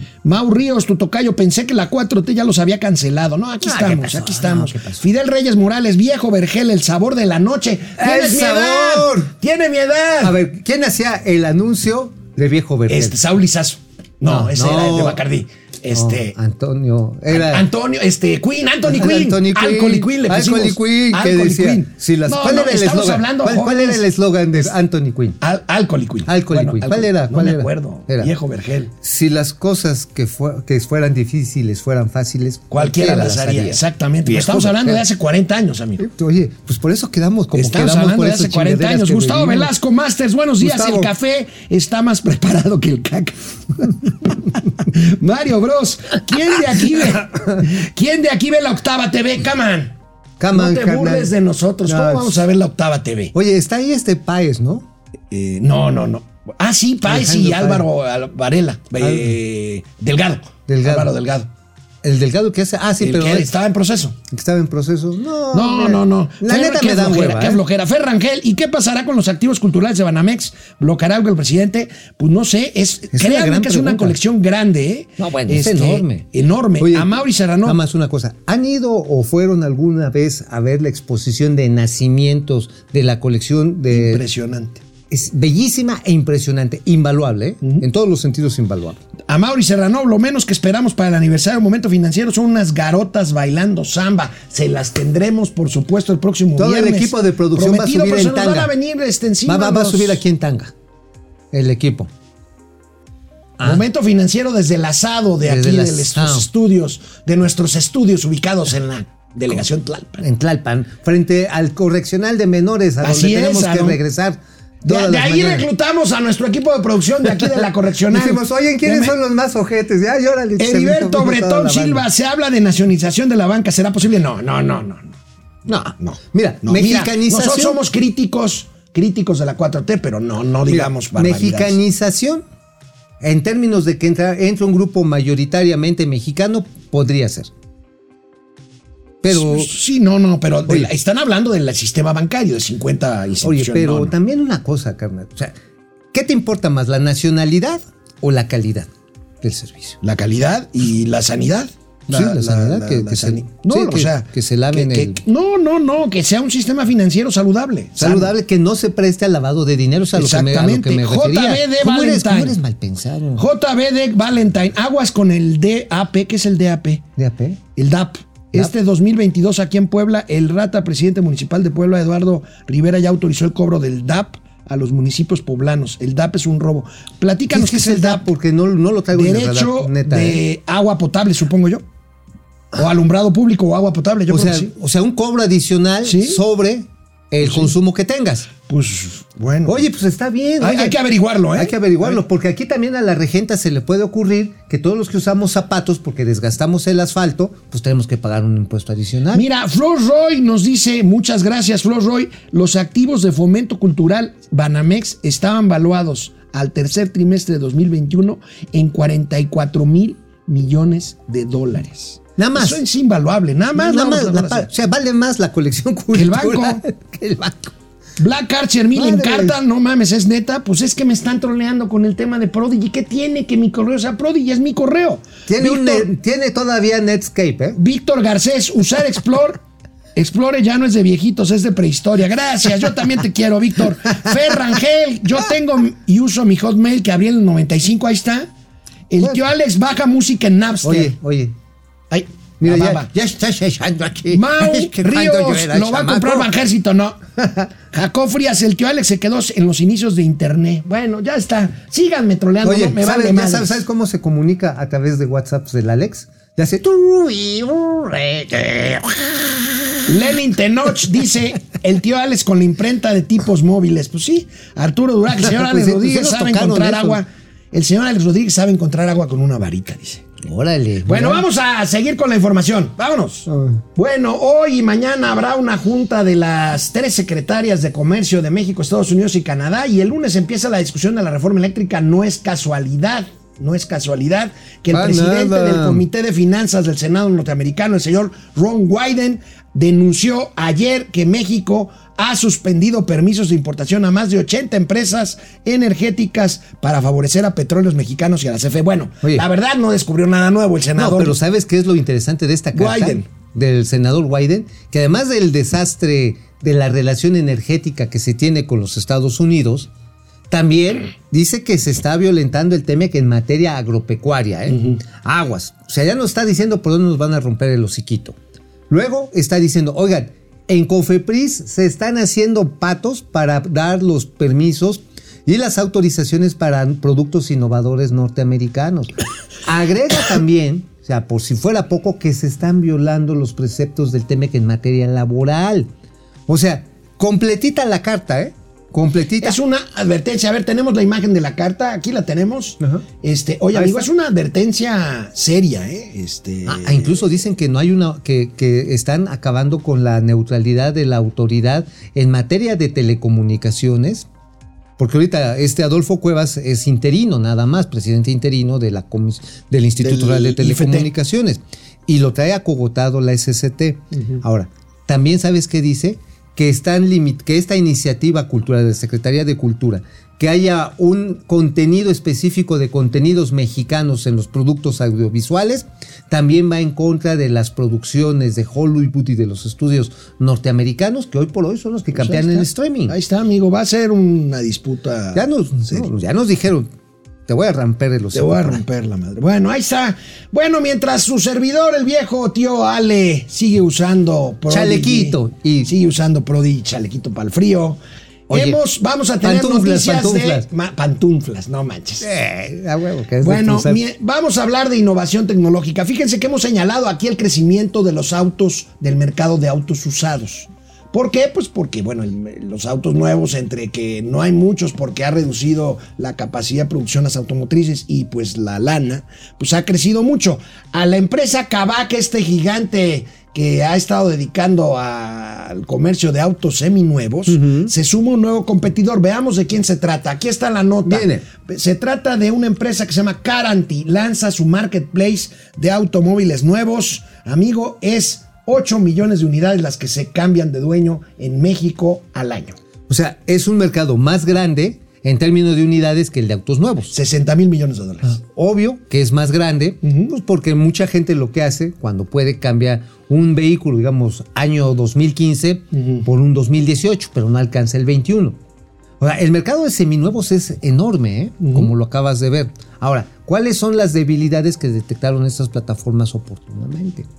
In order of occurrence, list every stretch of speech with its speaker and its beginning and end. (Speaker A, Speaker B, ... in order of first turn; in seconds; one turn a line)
Speaker A: 0.2-10.4
Speaker B: 3.6-5.1
Speaker B: 8.0-9.3
Speaker B: 10.2-13.2
Speaker A: 12.9-16.4
Speaker B: 14.2-15.2
Speaker B: 15.9-17.7
Speaker A: 17.3-24.1
Speaker B: 18.9-25.4
Speaker A: 25.4-28.9
Speaker B: 26.3-28.3
Speaker B: 29.0-35.0
Speaker A: 32.7-36.1
Speaker B: 36.0-39.7
Speaker A: 37.5-50.0
Speaker B: 40.6-41.1
Speaker B: 50.4-51.3
Speaker A: 50.5-53.3
Speaker B: 51.9-52.4
Speaker B: 53.3-54.9
Speaker A: 55.3-61.5
Speaker B: 57.0-57.9
Speaker B: 59.0-59.4
Speaker B: 60.7-61.1
Speaker B: 62.0-63.5
Speaker A: 63.0-64.2
Speaker B: 64.3-67.6
Speaker A: 65.5-77.8
Speaker B: 73.1-74.2
Speaker B: 75.2-76.3
Speaker B: 76.8-84.2
Speaker A: 83.9-84.8
Speaker B: 85.1-89.0
Speaker A: 89.3-100.2
Speaker B: 96.6-98.7
Speaker B: 99.5-100.7
Speaker B: 101.5-102.1
Speaker A: 103.6-110.2
Speaker B: 105.4-106.5
Speaker B: 110.2-115.7
Speaker A: 113.0-114.0
Speaker A: 114.8-119.2
Speaker B: 117.3-122.1
Speaker A: 120.6-125.2
Speaker B: 125.7-127.8
Speaker A: 126.0-131.8
Speaker B: 130.7-132.4
Speaker B: 133.2-137.5
Speaker B: 139.2-139.7
Speaker A: 139.3-144.1
Speaker B: 143.4-145.6
Speaker B: 146.1-148.9
Speaker B: 149.4-150.0
Speaker A: 150.0-158.3
Speaker B: 152.1-155.2
Speaker B: 158.0-163.5
Speaker A: 160.2-162.6
Speaker A: 163.4-167.0
Speaker B: 167.2-167.6
Speaker A: 167.8-178.3
Speaker B: 177.5-180.4
Speaker A: 179.1-181.8
Speaker A: 182.7-184.7
Speaker B: 184.3-188.5
Speaker A: 186.0-186.4
Speaker A: 187.4-187.7
Speaker A: 188.7-189.9
Speaker B: 189.7-191.0
Speaker A: 190.6-192.2
Speaker B: 191.5-199.5
Speaker A: 199.3-214.7
Speaker B: 212.4-212.8
Speaker B: 213.8-217.7
Speaker A: 216.1-216.8
Speaker A: 218.2-226.1
Speaker B: 218.9-219.6
Speaker B: 225.5-227.8
Speaker A: 227.8-229.6
Speaker A: 230.2-238.5
Speaker A: 239.1-241.1
Speaker B: 240.8-241.6
Speaker A: 242.1-243.1
Speaker B: 242.6-246.5
Speaker A: 244.3-247.2
Speaker B: 247.4-247.7
Speaker A: 247.8-253.8
Speaker B: 252.6-260.2
Speaker A: 260.1-270.3
Speaker B: 265.4-267.2
Speaker B: 270.4-271.4
Speaker A: 271.1-301.4
Speaker B: 273.5-273.8
Speaker B: 284.9-286.1
Speaker B: 301.0-309.9
Speaker A: 302.7-303.3
Speaker B: 310.5-318.4
Speaker A: 314.7-315.0
Speaker B: 318.9-329.1
Speaker B: 329.6-335.9
Speaker B: 336.5-339.6
Speaker A: 339.4-347.2
Speaker B: 343.7-344.1
Speaker B: 346.7-354.3
Speaker B: 355.0-383.2
Speaker A: 360.0-361.1
Speaker A: 364.1-364.4
Speaker A: 382.1-386.1
Speaker B: 385.4-386.9
Speaker B: 387.5-388.8
Speaker A: 388.3-402.3
Speaker B: 394.7-395.9
Speaker B: 398.5-398.8
Speaker B: 399.4-400.7
Speaker B: 402.2-404.0
Speaker A: 403.4-442.8
Speaker B: 427.5-427.9
Speaker B: 431.1-431.5
Speaker B: 443.1-447.1
Speaker A: 447.1-448.4
Speaker B: 448.2-458.6
Speaker A: 450.0-450.3
Speaker A: 455.9-456.3
Speaker B: 459.2-467.3
Speaker A: 461.6-461.9